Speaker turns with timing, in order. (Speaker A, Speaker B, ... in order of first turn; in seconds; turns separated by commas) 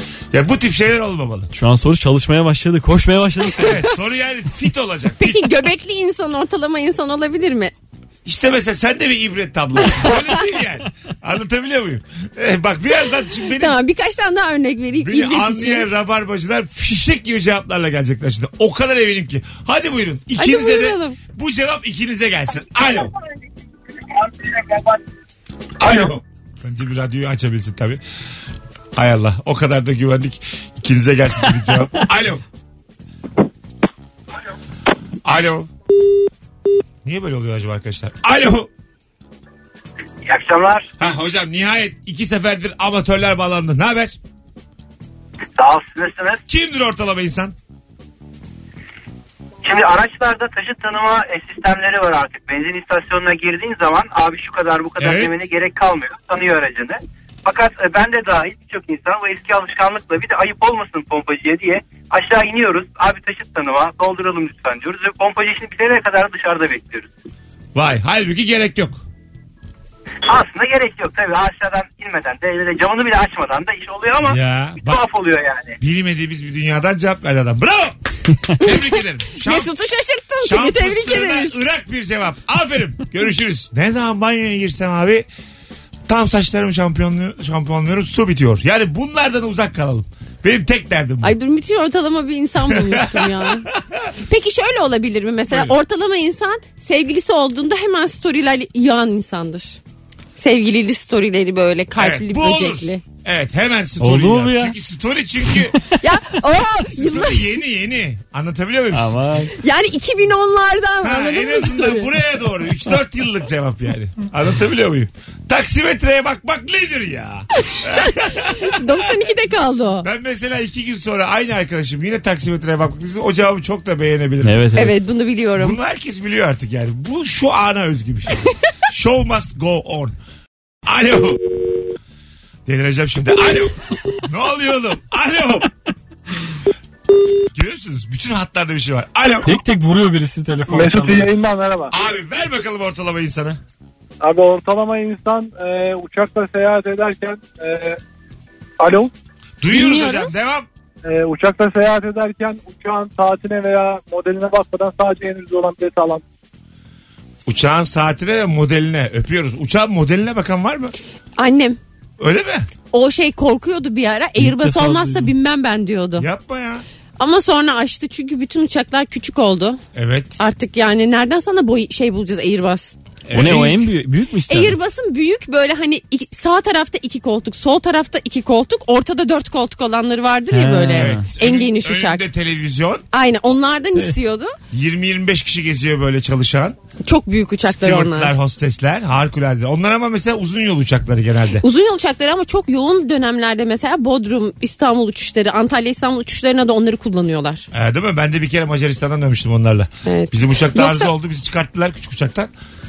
Speaker A: 0.3-1.5, Speaker B: 1.5-3.8, Speaker A: 3.5-5.5, Speaker C: 5.2-7.7, Speaker A: 8.2-13.8, Speaker C: 13.6-15.9, Speaker A: 15.0-23.1, Speaker C: 20.4-21.2, Speaker A: 25.8-28.0, Speaker A: 28.9-32.4, Speaker A: 35.2-35.7, Speaker A: 37.0-38.7, Speaker D: 40.2-40.9, Speaker A: 41.0-44.2, Speaker D: 45.6-46.4, Speaker A: 46.5-47.5, Speaker D: 49.6-67.1, Speaker A: 55.0-55.3, Speaker A: 67.8-69.0, Speaker D: 70.3-75.8, Speaker A: 74.2-75.0, Speaker A: 75.8-78.0, Speaker A: 78.6-79.7, Speaker C: 79.4-81.6, Speaker A: 80.4-85.3, Speaker A: 86.1-91.3, Speaker C: 91.2-93.7, Speaker A: 92.7-94.1, Speaker C: 94.2-99.8, Speaker A: 95.5-95.8, Speaker C: 100.4-103.0, Speaker A: 102.0-105.8, Speaker B: 104.0-104.8, Speaker C: 106.0-107.4, Speaker A: 106.9-109.2, Speaker B: 108.9-109.5, Speaker C: 109.6-112.1, Speaker A: 111.0-119.2, Speaker C: 117.7-120.1, Speaker A: 120.0-124.6, Speaker B: 124.4-124.9, Speaker C: 124.8-125.8, Speaker A: 125.6-130.2, Speaker A: 130.9-131.5, Speaker A: 132.7-135.7, Speaker A: 137.5-139.6, Speaker B: 139.4-141.3, Speaker E: 140.7-141.9, Speaker A: 141.9-143.6, Speaker E: 144.2-148.0, Speaker E: 148.8-149.1, Speaker A: 149.6-150.7, Speaker C: 149.7-150.3, Speaker E: 151.0-156.2, Speaker A: 157.5-160.9, Speaker C: 161.4-161.8, Speaker A: 162.2-162.7, Speaker C: 162.9-166.3, Speaker B: 164.4-165.3, Speaker A: 166.2-166.8, Speaker C: 167.2-169.8, Speaker A: 169.9-170.4, Speaker C: 170.4-172.9, Speaker A: 173.3-173.9, Speaker B: 173.3-174.8, Speaker C: 174.5-182.2, Speaker B: 180.5-181.2, Speaker A: 180.9-183.1, Speaker C: 183.1-184.6, Speaker A: 184.7-186.8, Speaker C: 187.1-188.3, Speaker A: 187.6-191.6, Speaker C: 191.6-197.7, Speaker A: 197.7-202.5, Speaker C: 200.1-201.1